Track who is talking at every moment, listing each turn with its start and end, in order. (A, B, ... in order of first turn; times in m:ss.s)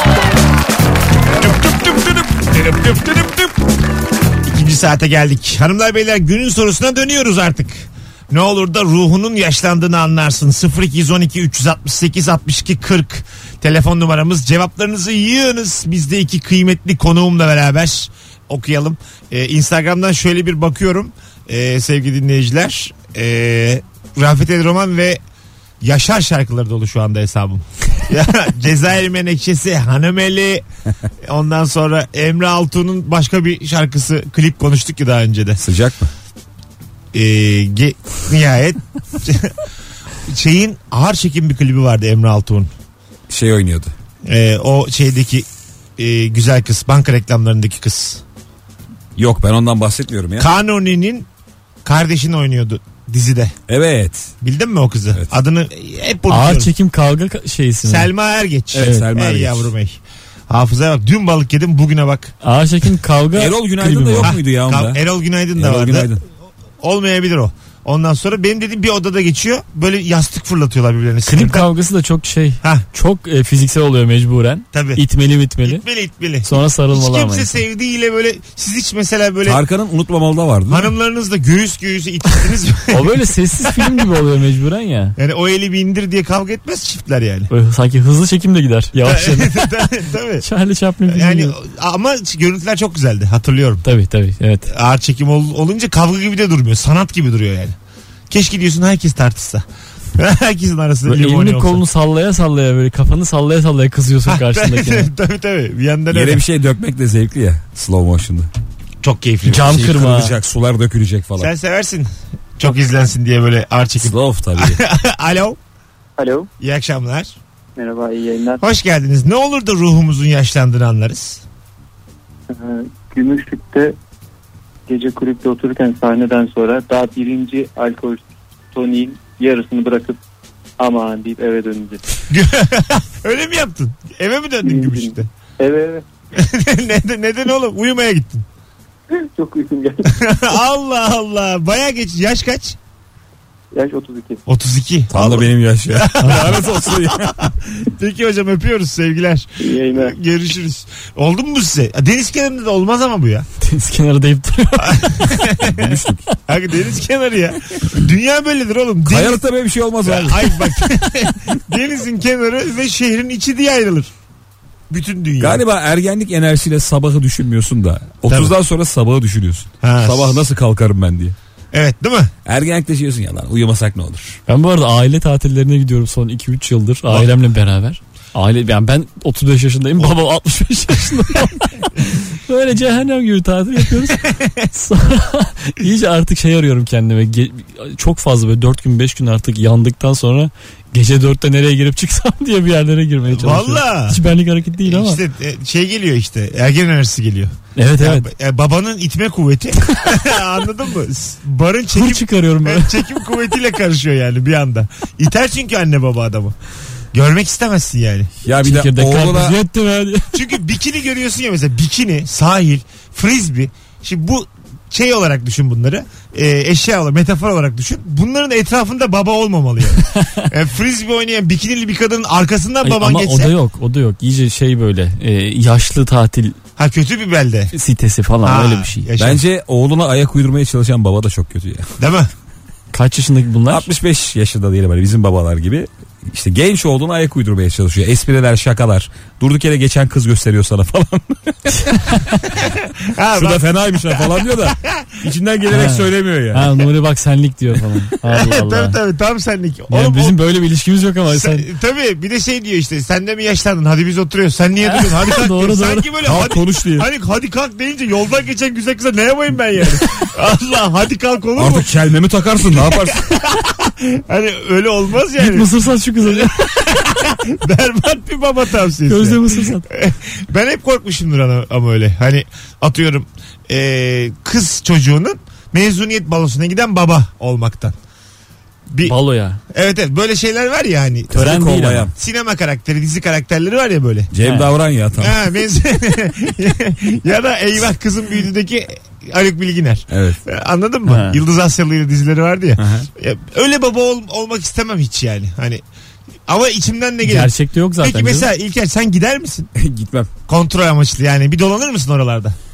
0:01.4-0:03.6 A
0:04.4-0:25.2 A
0:25.8-0:30.6 A
0:31.2-0:35.6 A
0:35.6-0:36.1 B
0:37.1-0:39.6 A
0:40.3-0:42.7 A
0:43.3-0:43.9 B
0:44.3-0:48.2 A
0:49.2-0:50.5 B
0:50.4-0:51.3 A
0:51.8-0:53.5 A
0:53.7-0:54.3 B
0:54.4-0:56.7 A
0:56.3-0:58.1 C
0:57.8-1:02.3 A
0:58.7-0:59.7 B
0:58.8-0:59.1 C
1:02.4-1:04.3 C
1:03.4-1:05.0 B
1:04.2-1:06.2 A
1:05.6-1:06.2 B
1:06.8-1:11.7 A
1:11.3-1:15.8 C
1:14.7-1:15.0 A
1:15.6-1:19.6 A
1:16.4-1:17.6 C
1:19.4-1:20.9 B
1:20.7-1:24.0 A
1:22.9-1:25.2 C
1:25.2-1:27.5 A
1:27.5-1:31.6 C
1:29.0-1:30.4 A
1:31.1-1:33.8 A
1:33.8-1:34.7 C
1:34.7-1:37.8 A
1:38.3-1:39.6 A
1:40.2-1:41.8 A
1:41.0-1:45.1 C
1:44.3-1:46.4 A
1:46.1-1:48.5 B
1:49.0-1:49.9 A
1:49.5-1:50.3 C
1:49.5-1:51.5 B
1:51.4-1:55.6 A
1:54.0-1:54.8 B
1:56.2-1:56.5 D
1:56.6-1:57.4 A
1:57.8-1:58.6 D
1:58.6-2:01.4 A
2:02.5-2:04.0 D
2:04.9-2:10.2 D
2:10.8-2:12.0 D
2:12.3-2:15.3 A
2:14.6-2:16.1 D
2:16.4-2:18.5 A
2:19.1-2:20.2 D
2:20.1-2:22.8 A
2:23.7-2:24.4 D
2:24.5-2:33.5 A
2:25.1-2:27.5 B
2:29.6-2:30.2 D
2:33.6-2:35.4 C
2:34.8-2:39.4 A
2:35.6-2:36.2 B
2:39.1-2:40.7 B
2:40.0-2:44.1 A
2:44.9-2:45.6 A
2:45.4-2:51.4 B
2:48.3-2:48.6 A
2:49.8-2:50.4 A
2:51.7-2:52.3 A
2:52.5-2:54.4 B
2:54.5-3:15.2 C
3:04.2-3:04.7 A
3:13.3-3:14.2 A
3:14.8-3:26.6 A
3:17.8-3:18.3 C
3:21.9-3:23.1 C
3:27.1-3:28.3 A
3:28.4-3:29.6 B
3:28.6-3:30.4 C
3:30.3-3:43.5 A
3:40.0-3:40.4 C
3:42.8-3:46.6 C
3:46.8-3:47.7 A
3:47.7-3:49.1 C
3:48.4-3:49.4 A
3:49.2-3:51.9 B
3:52.0-3:52.3 A
3:52.9-3:53.9 C
3:53.7-4:02.6 B
4:01.7-4:02.3 C
4:02.6-4:05.2 A
4:03.3-4:06.7 B
4:05.7-4:09.0 C
4:08.3-4:10.4 A
4:09.9-4:11.7 C
4:11.3-4:21.9 A
4:14.8-4:16.1 C
4:16.2-4:17.1 B
4:21.6-4:23.4 B
4:22.6-4:38.0 A
4:25.4-4:26.8 C
4:29.0-4:29.8 C
4:38.9-4:39.2 A
4:39.0-4:39.6 C
4:39.7-4:41.6 A
4:41.3-4:42.1 B
4:41.3-4:42.1 C
4:42.1-4:44.3 A
4:44.3-4:45.4 B
4:45.2-4:55.8 A
4:50.1-4:50.4 B
4:51.1-4:51.4 C
4:52.8-4:53.1 B
4:56.5-4:59.7 A
4:57.2-4:58.5 C
4:59.8-5:00.3 B
5:00.5-5:02.6 A